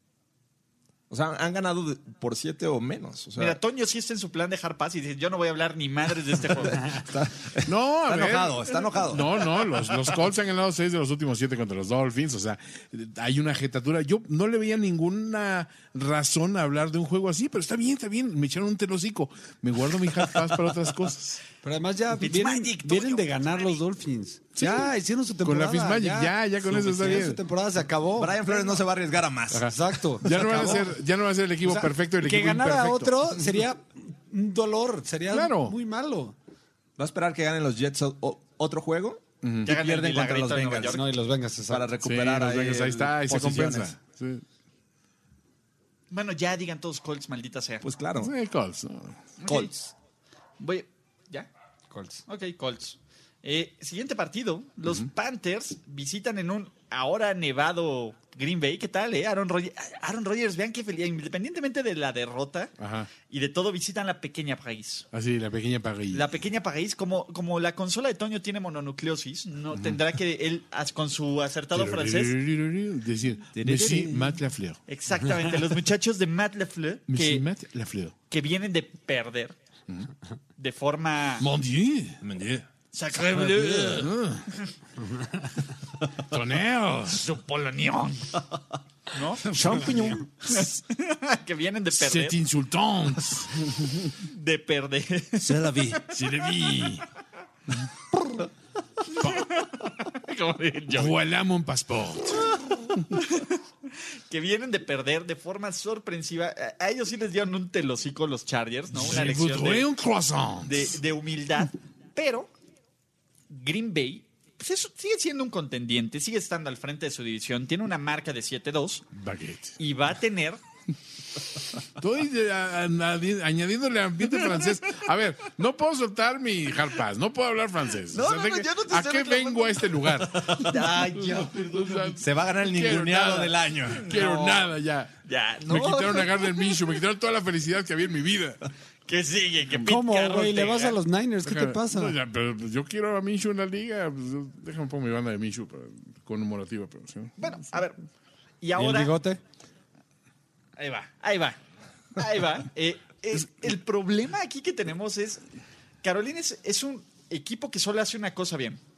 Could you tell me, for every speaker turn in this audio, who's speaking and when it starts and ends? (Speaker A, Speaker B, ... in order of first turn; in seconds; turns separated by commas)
Speaker A: 1.1-3.6, Speaker B: 3.4-7.0, Speaker A: 6.7-9.6, Speaker C: 7.7-21.4, Speaker D: 21.6-28.6, Speaker B: 22.2-23.8, Speaker C: 24.6-24.9, Speaker C: 25.4-27.4, Speaker A: 28.1-30.9, Speaker C: 29.5-33.4, Speaker D: 29.6-30.9, Speaker D: 31.6-36.4, Speaker C: 35.3-35.8, Speaker A: 37.0-41.0, Speaker C: 39.4-39.7, Speaker B: 39.6-41.1, Speaker D: 40.9-41.9, Speaker A: 41.7-43.9, Speaker C: 42.0-44.4, Speaker B: 46.1-47.8, Speaker A: 47.8-48.3, Speaker C: 48.2-49.2, Speaker B: 49.4-49.7, Speaker A: 49.5-49.9, Speaker B: 50.6-51.5, Speaker D: 51.9-52.2, Speaker B: 52.3-65.1, Speaker C: 62.8-63.1, Speaker C: 65.1-66.3, Speaker B: 66.1-72.4, Speaker C: 71.7-74.8, Speaker A: 73.5-74.4, Speaker B: 74.9-77.5, Speaker C: 77.1-78.1, Speaker B: 78.3-79.5, Speaker B: 80.6-81.5, Speaker C: 81.4-82.2, Speaker A: 82.2-82.7, Speaker B: 82.9-84.1, Speaker A: 83.3-84.0, Speaker C: 83.8-84.5, Speaker D: 85.1-85.5, Speaker C: 86.1-87.2, Speaker B: 87.1-88.4, Speaker B: 89.1-92.4, Speaker C: 89.5-90.7, Speaker A: 89.5-90.2, Speaker C: 91.9-94.1, Speaker B: 94.2-96.0, Speaker A: 95.4-96.0, Speaker C: 96.1-97.0, Speaker B: 99.1-101.2, Speaker C: 99.2-99.5, Speaker C: 100.9-102.6, Speaker B: 103.1-103.6, Speaker B: 104.3-109.9, Speaker C: 108.9-111.0, Speaker B: 110.6-112.5, Speaker B: 113.5-119.1, Speaker C: 119.1-119.7, Speaker B: 119.8-120.6, Speaker C: 121.9-135.1, Speaker B: 128.1-132.1, Speaker A: 132.1-134.1, Speaker B: 134.0-134.7, Speaker B: 135.2-137.0, Speaker C: 135.7-138.6, Speaker B: 139.1-141.0, Speaker D: 139.8-142.2, Speaker C: 141.4-147.4, Speaker B: 147.4-148.0, Speaker B: 148.6-149.1, Speaker D: 148.7-149.4, Speaker B: 150.8-151.6, Speaker B: 152.1-155.4, Speaker B: 156.0-158.8